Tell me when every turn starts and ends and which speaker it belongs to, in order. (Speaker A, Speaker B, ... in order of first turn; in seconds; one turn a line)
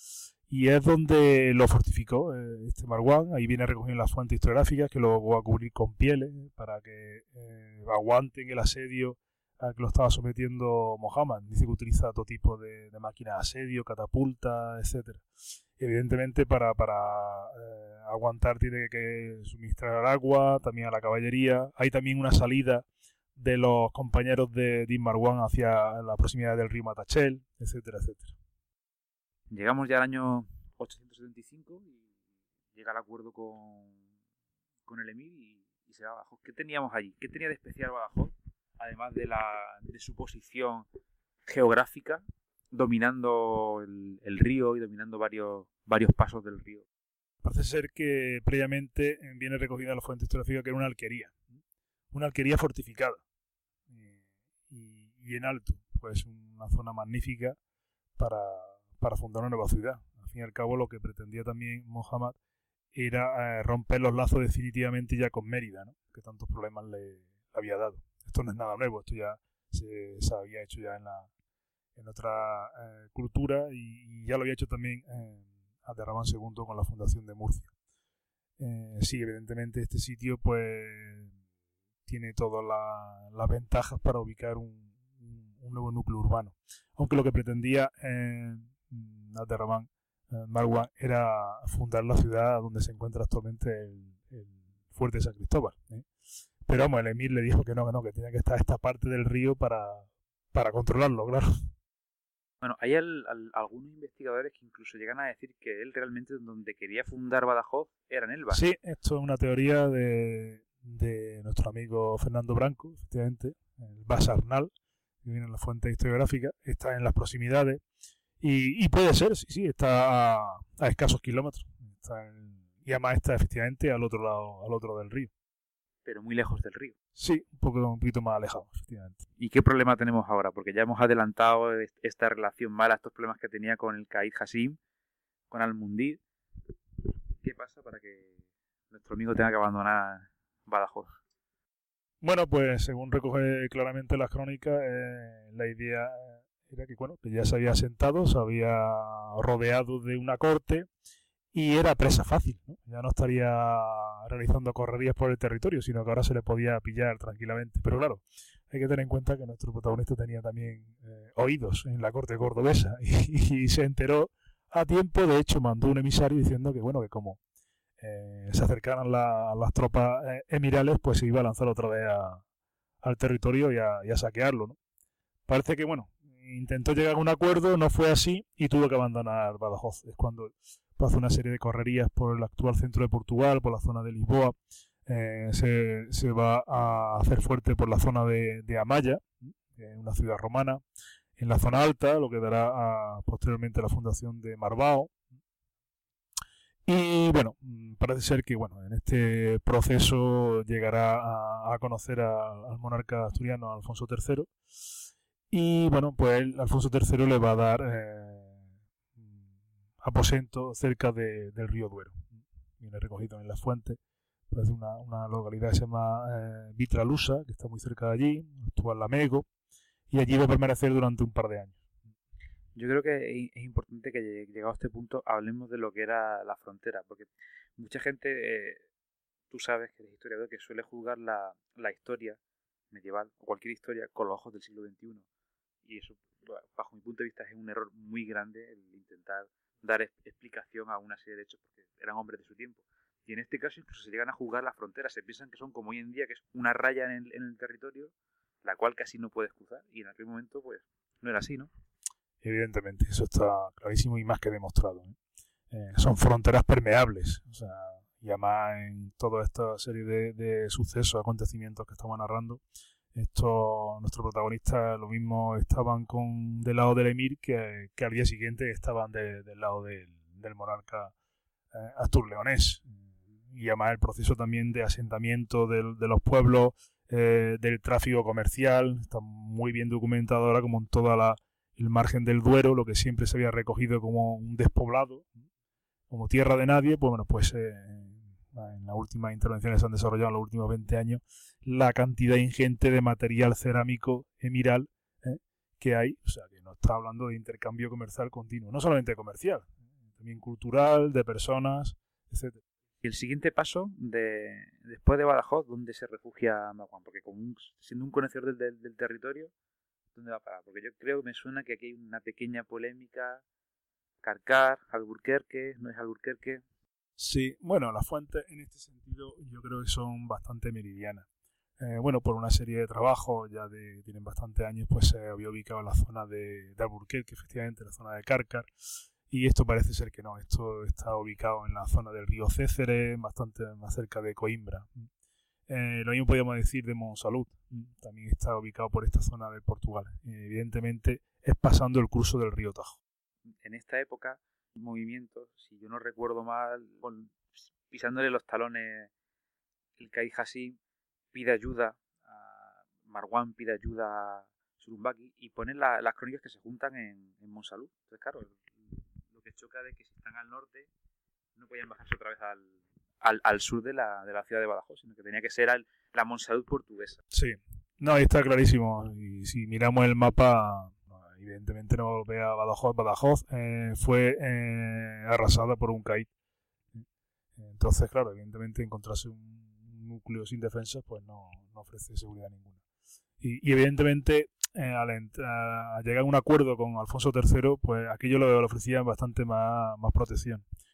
Speaker A: 0.5-15.2
Speaker A: 15.8-28.3
Speaker B: 29.5-32.0
Speaker B: 32.7-34.0
Speaker B: 34.9-40.9
Speaker B: 41.4-46.9
Speaker A: 47.4-51.4
Speaker A: 52.1-53.2
Speaker A: 53.9-57.6
Speaker A: 58.2-62.4
Speaker A: 62.9-71.3
Speaker A: 72.0-77.7
Speaker A: 78.6-81.3
Speaker A: 82.0-96.0
Speaker A: 96.7-101.7
Speaker B: 102.6-108.6
Speaker A: 108.5-114.7
Speaker A: 115.2-117.8
Speaker A: 118.4-125.3
Speaker B: 126.0-126.9
Speaker A: 127.2-129.2
Speaker B: 129.4-134.8
Speaker B: 135.5-136.2
Speaker B: 137.4-138.4
Speaker B: 138.9-141.1
Speaker A: 142.2-150.9
Speaker A: 151.5-167.4
Speaker A: 168.0-172.4
Speaker A: 173.0-174.8
Speaker A: 175.5-190.8
Speaker A: 191.4-195.1
Speaker A: 196.8-204.5
Speaker A: 205.5-209.4
Speaker A: 210.0-214.0
Speaker A: 214.5-219.4
Speaker A: 220.1-221.8
Speaker B: 222.7-228.8
Speaker B: 229.5-232.4
Speaker B: 232.9-235.2
Speaker B: 235.8-248.1
Speaker B: 248.6-251.7
Speaker A: 252.4-255.2
Speaker A: 255.7-262.6
Speaker A: 263.1-271.1
Speaker A: 271.7-272.9
Speaker A: 273.5-285.3
Speaker A: 286.1-302.6
Speaker B: 303.0-309.5
Speaker B: 310.1-313.4
Speaker B: 314.2-316.6
Speaker A: 317.2-321.3
Speaker A: 321.8-328.7
Speaker A: 329.3-335.1
Speaker A: 335.7-343.0
Speaker B: 343.6-349.1
Speaker B: 350.0-350.8
Speaker B: 351.3-360.9
Speaker B: 361.6-367.2
Speaker A: 367.3-376.3
Speaker A: 377.6-382.8
Speaker A: 383.4-390.6